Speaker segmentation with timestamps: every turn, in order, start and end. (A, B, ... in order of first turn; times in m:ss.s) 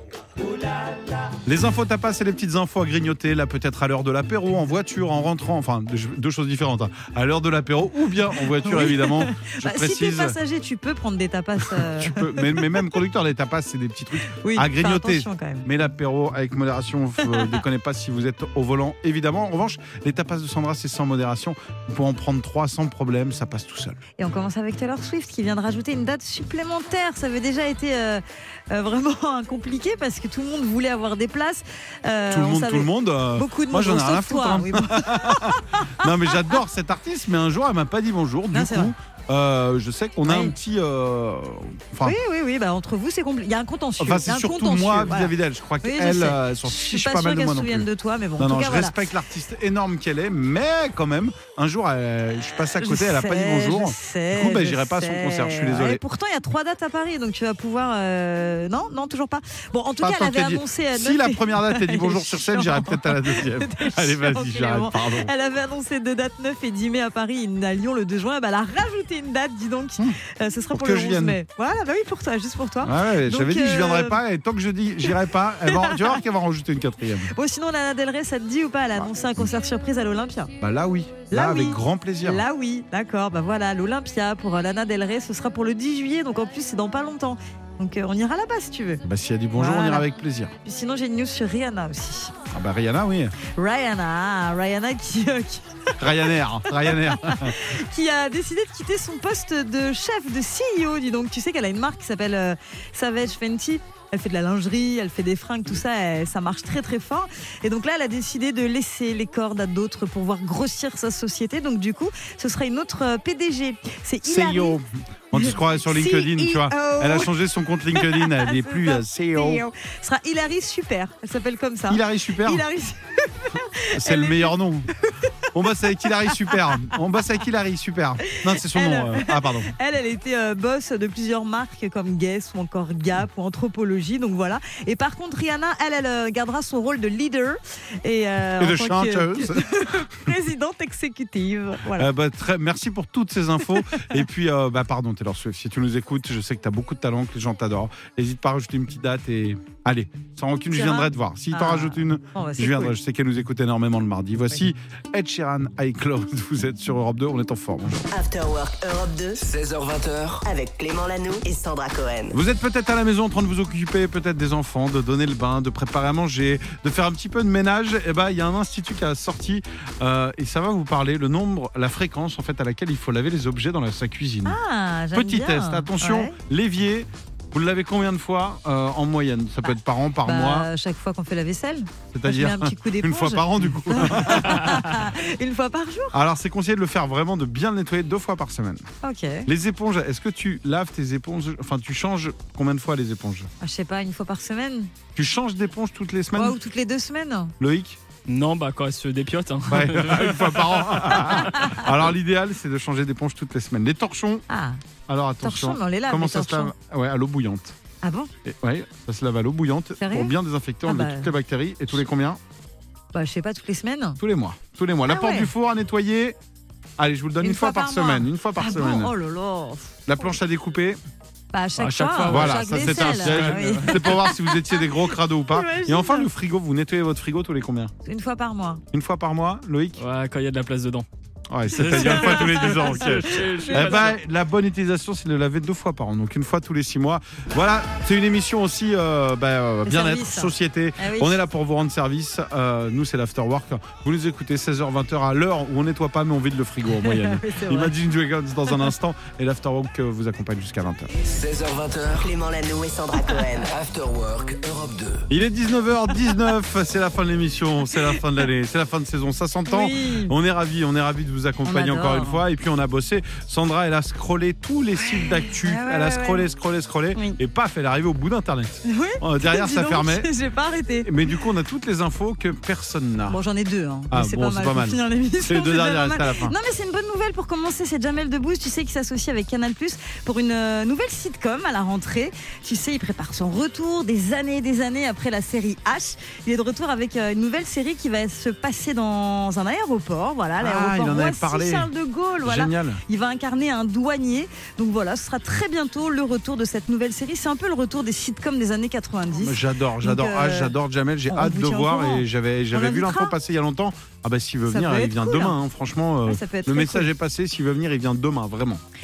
0:01.4-0:10.4 A
0:08.5-0:12.9 B
0:11.6-0:24.0 A
0:14.3-0:15.7 B
0:17.2-0:17.6 B
0:24.2-0:36.1 B
0:32.3-0:42.2 A
0:38.5-0:38.9 B
0:40.3-0:40.5 B
0:42.0-0:49.0 B
0:44.0-0:47.9 A
0:48.4-0:56.0 A
0:52.8-1:14.2 B
1:00.0-1:05.3 A
1:10.7-1:11.4 A
1:12.8-1:17.3 A
1:15.7-1:16.2 B
1:17.3-1:20.5 B
1:19.0-1:19.5 A
1:20.6-1:22.4 A
1:21.3-1:29.0 B
1:29.0-1:30.5 A
1:29.6-1:30.0 B
1:30.6-1:32.3 B
1:32.5-1:33.4 A
1:33.5-1:54.8 B
1:36.0-1:37.6 A
1:54.2-1:59.7 A
1:55.3-1:57.4 B
1:57.9-2:04.6 B
2:01.9-2:02.6 A
2:03.9-2:04.9 A
2:05.1-2:07.0 B
2:05.5-2:09.7 A
2:08.3-2:22.1 B
2:18.6-2:20.3 A
2:22.0-2:38.0 A
2:30.7-2:33.0 B
2:38.1-2:39.4 C
2:39.4-2:40.4 D
2:40.4-2:42.4 C
2:42.3-2:54.6 A
2:54.5-2:56.4 B
2:55.1-3:00.7 A
3:00.2-3:06.2 B
3:02.1-3:05.0 A
3:06.1-3:08.9 A
3:09.0-3:09.5 B
3:09.5-3:13.5 A
3:13.6-3:14.9 B
3:15.2-3:16.6 A
3:16.3-3:17.5 B
3:17.6-3:18.0 A
3:18.3-3:21.3 E
3:19.7-3:24.4 A
3:21.3-3:21.9 B
3:24.5-3:24.8 B
3:25.1-3:27.8 A
3:25.4-3:26.7 B
3:28.0-3:28.3 B
3:28.4-3:32.4 A
3:30.0-3:30.3 B
3:30.9-3:31.3 B
3:33.1-3:34.2 B
3:34.2-3:36.4 A
3:35.1-3:35.5 B
3:37.0-3:39.1 A
3:37.4-3:40.0 B
3:40.1-3:41.0 A
3:41.5-3:44.9 B
3:41.8-3:44.2 E
3:42.2-3:47.9 A
3:45.5-3:46.3 B
3:48.0-3:48.8 B
3:48.9-3:50.0 A
3:50.0-3:51.1 E
3:51.5-4:11.1 A
3:51.7-3:54.2 E
3:51.8-3:54.1 B
3:59.9-4:01.4 B
4:07.0-4:08.0 B
4:11.2-4:12.3 D
4:12.2-4:13.7 C
4:13.6-4:15.3 D
4:15.3-4:30.3 A
4:19.7-4:20.4 B
4:21.6-4:22.4 B
4:25.0-4:26.5 B
4:27.1-4:27.4 B
4:28.9-4:31.3 B
4:31.0-4:33.4 A
4:33.3-5:00.8 B
4:34.1-4:36.6 A
4:50.6-4:51.9 A
4:52.4-4:53.0 A
4:59.4-5:08.8 A
5:01.3-5:03.4 B
5:04.7-5:05.6 B
5:06.3-5:07.1 B